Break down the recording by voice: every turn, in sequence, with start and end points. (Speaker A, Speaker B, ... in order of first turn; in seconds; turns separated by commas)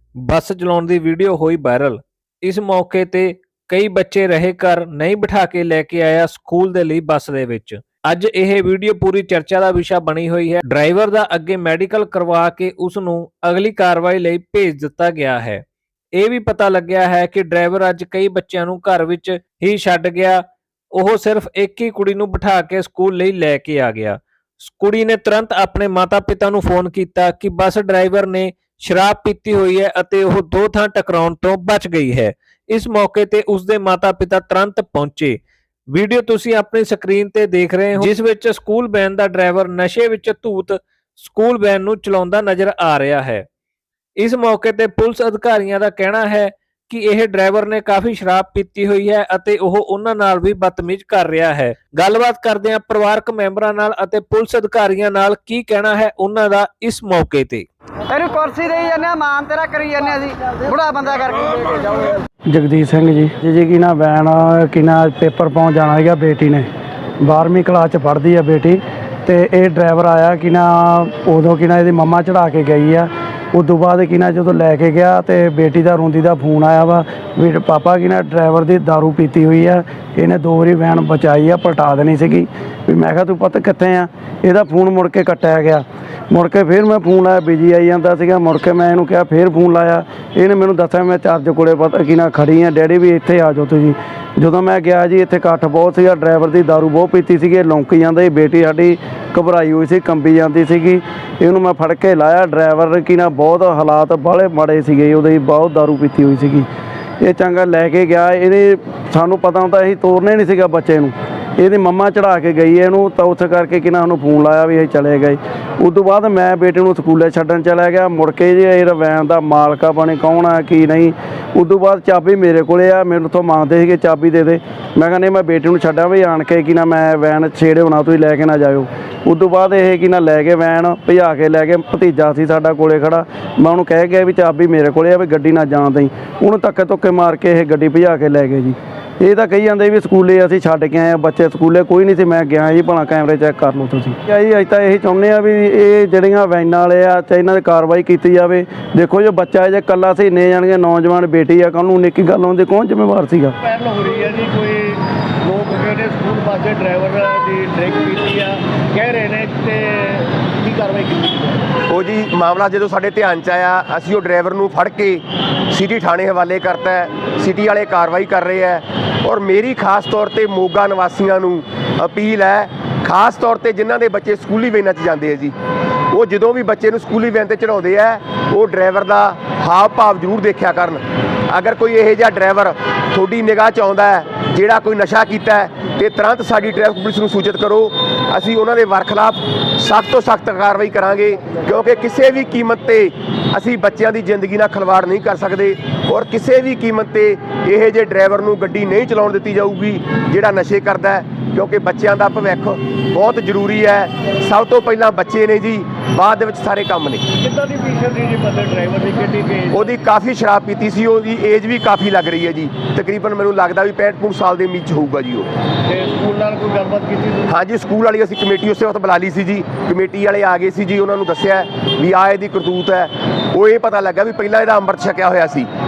Speaker A: 0.2-20.4, Speaker A: 20.9-43.5, Speaker A: 44.2-57.7, Speaker B: 58.1-62.2, Speaker C: 62.5-66.7, Speaker C: 67.2-106.7, Speaker C: 107.2-153.6, Speaker D: 153.6-161.6, Speaker E: 161.9-175.5, Speaker E: 176.1-207.2, Speaker D: 207.4-209.9, Speaker E: 209.7-215.5, Speaker D: 215.9-217.6, Speaker E: 217.5-225.7